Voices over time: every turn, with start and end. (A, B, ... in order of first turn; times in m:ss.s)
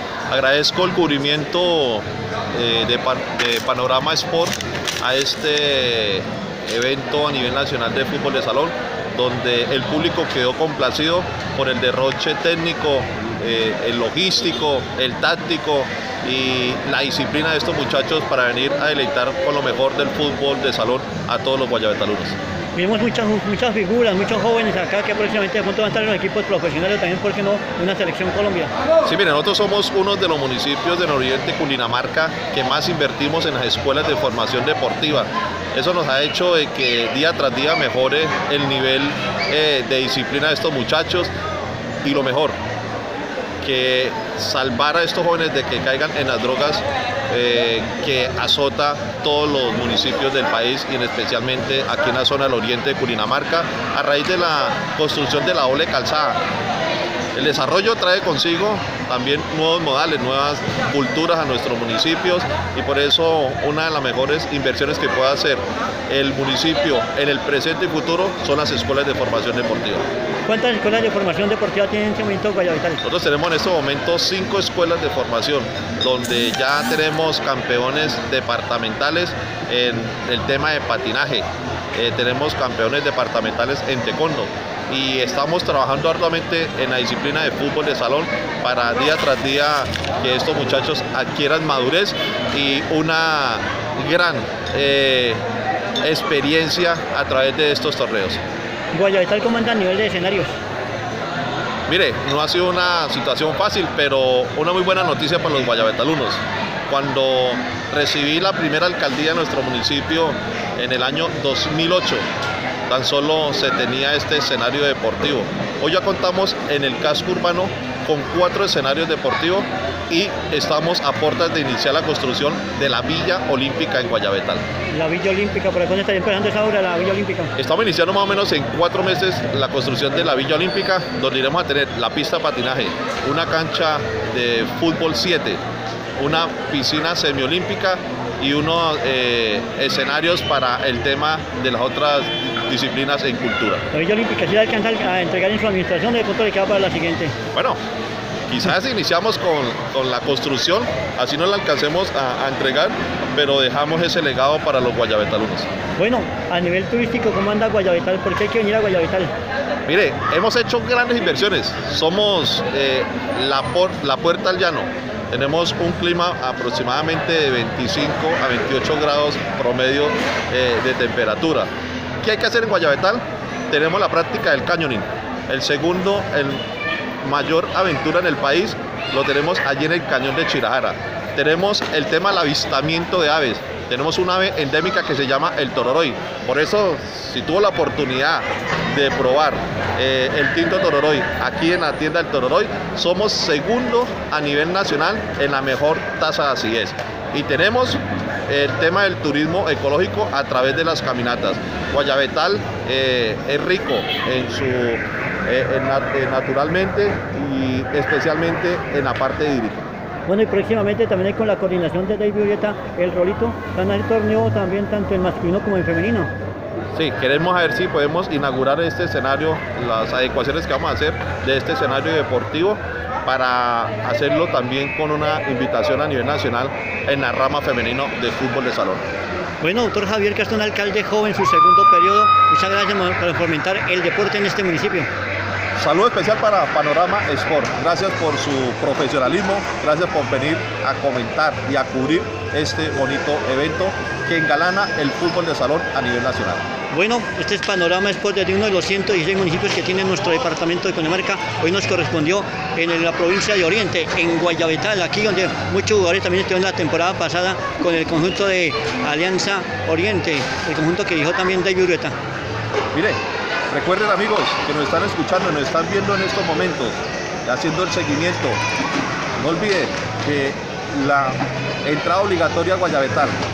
0:00.3-0:22.4 A
0:22.8-0:28.7 B
0:29.0-0:41.3 A
0:42.0-0:42.6 A
0:43.6-0:56.4 A
0:57.3-1:10.0 A
1:10.5-1:13.0 B
1:13.0-1:35.4 A
1:36.0-1:38.4 A
1:38.9-1:40.5 B
1:41.9-1:52.2 A
1:52.9-2:04.6 A
2:04.9-2:07.5 B
2:07.6-2:15.6 A
2:16.2-2:23.8 A
2:23.9-2:27.3 B
2:27.5-2:27.8 A
2:28.5-2:35.7 A
2:36.0-2:39.3 B
2:39.9-2:51.7 A
2:52.2-2:56.6 A
2:57.2-3:29.8 A
3:30.3-3:36.3 B
3:36.9-3:49.0 A
3:49.6-3:55.1 B
3:55.8-4:06.6 A
4:06.9-4:22.1 B
4:22.9-4:23.2 A
4:23.7-4:28.6 A
4:29.4-4:33.4 A